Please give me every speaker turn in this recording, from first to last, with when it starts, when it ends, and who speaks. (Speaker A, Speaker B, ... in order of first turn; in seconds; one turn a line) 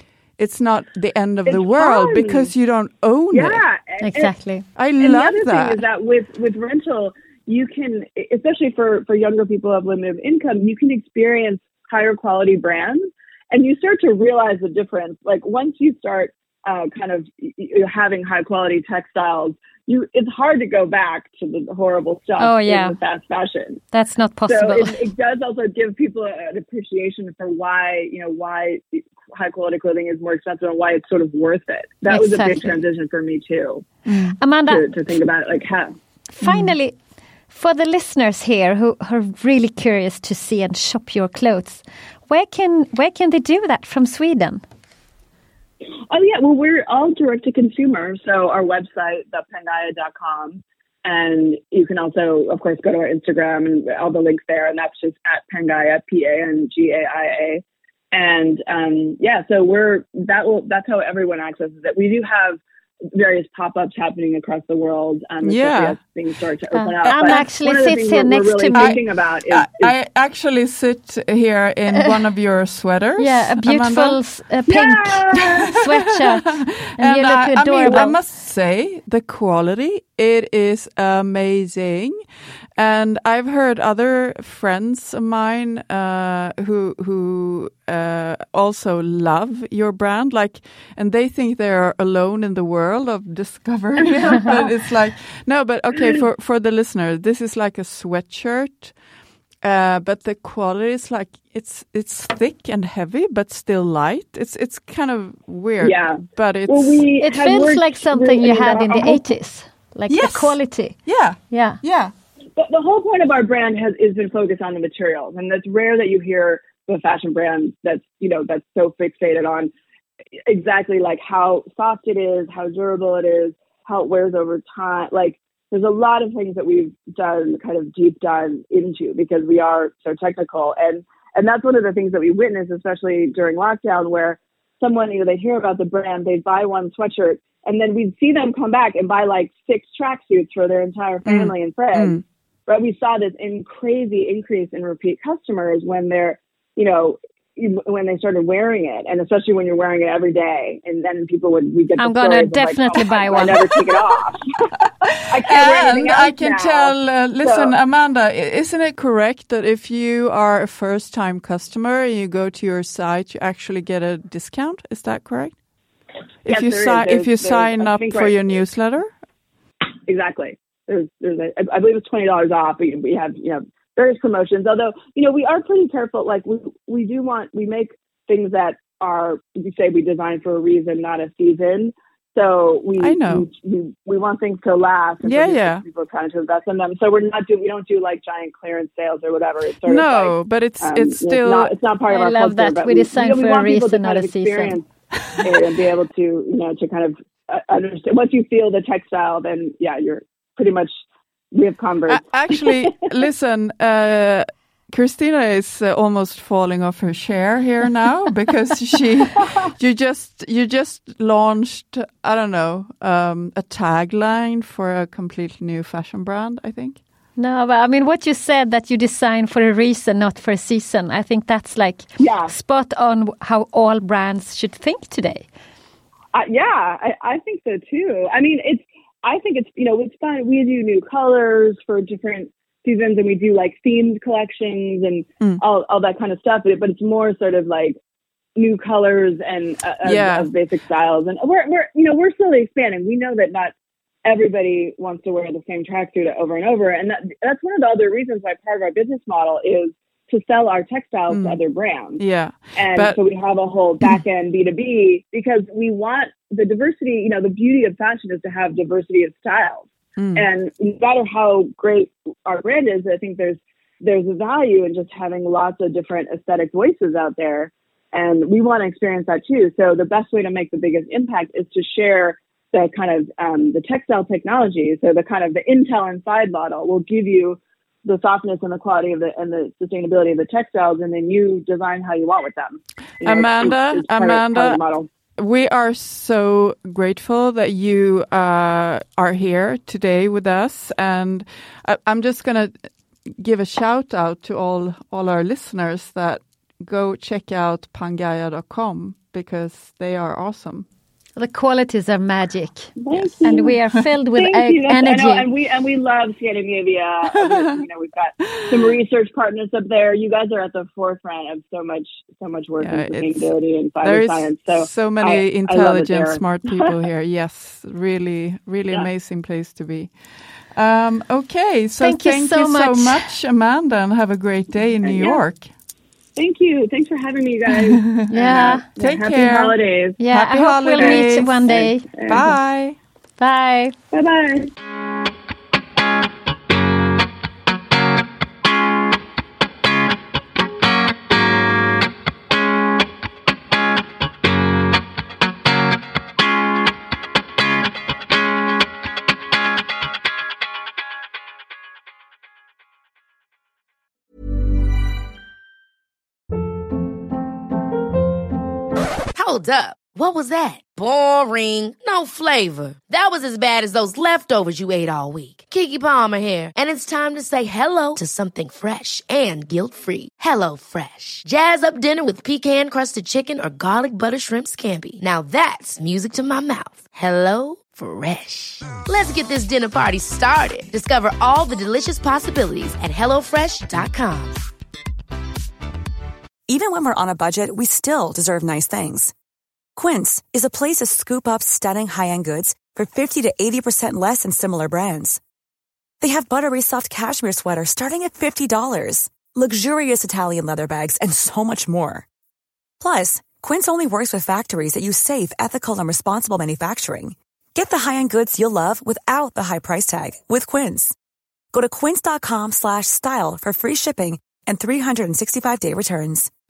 Speaker A: 0.4-3.6
Speaker B: 1.5-2.5
Speaker B: 3.3-4.3
Speaker C: 4.0-4.6
Speaker A: 4.8-5.8
Speaker B: 5.0-23.8
Speaker C: 22.4-22.9
Speaker C: 23.9-25.0
Speaker B: 24.4-33.9
Speaker C: 32.1-32.8
Speaker A: 34.0-34.4
Speaker C: 34.4-34.9
Speaker B: 34.7-35.9
Speaker C: 36.4-36.9
Speaker A: 36.4-36.7
Speaker C: 37.5-44.6
Speaker B: 46.1-62.6
Speaker B: 63.1-69.9
Speaker A: 65.4-66.0
Speaker C: 66.7-69.0
Speaker A: 67.1-67.4
Speaker A: 68.7-74.2
Speaker C: 73.2-78.2
Speaker B: 74.7-75.7
Speaker A: 76.3-82.2
Speaker B: 77.8-78.1
Speaker A: 82.8-98.9
Speaker A: 99.6-107.0
Speaker B: 105.8-109.3
Speaker C: 107.2-111.0
Speaker A: 110.1-112.1
Speaker C: 111.5-111.8
Speaker B: 112.6-119.7
Speaker B: 120.5-157.7
Speaker A: 141.2-142.2
Speaker C: 152.0-153.7
Speaker A: 155.0-165.5
Speaker A: 166.4-169.1
Speaker B: 166.5-168.6
Speaker B: 170.1-194.8
Speaker A: 183.0-183.5
Speaker A: 185.2-185.8
Speaker A: 189.8-191.8
Speaker C: 192.1-194.8
Speaker B: 195.4-200.9
Speaker B: 201.5-202.7
Speaker A: 202.1-217.0
Speaker C: 217.4-225.4
Speaker B: 222.2-222.5
Speaker B: 226.3-238.0
Speaker B: 238.6-243.7
Speaker A: 240.0-240.5
Speaker B: 244.2-252.2
Speaker A: 251.3-251.6
Speaker A: 252.2-253.2
Speaker B: 252.7-285.1
Speaker A: 260.2-260.5
Speaker A: 283.2-284.8
Speaker A: 285.4-292.7
Speaker A: 293.3-300.9
Speaker C: 301.4-305.5
Speaker B: 303.0-303.8
Speaker B: 304.3-316.9
Speaker A: 307.3-307.7
Speaker A: 308.4-308.9
Speaker A: 312.8-313.5
Speaker A: 314.0-320.1
Speaker A: 320.7-325.7
Speaker C: 322.0-323.3
Speaker B: 325.0-325.4
Speaker B: 326.4-330.2
Speaker A: 327.7-331.5
Speaker C: 328.3-328.8
Speaker C: 330.2-332.1
Speaker B: 330.9-332.5
Speaker A: 332.2-333.0
Speaker C: 333.4-333.9
Speaker B: 334.1-334.7
Speaker D: 359.3-384.6
Speaker E: 386.7-389.3
Speaker E: 389.9-395.4
Speaker E: 396.2-402.2
Speaker E: 403.0-411.1
Speaker E: 411.7-416.5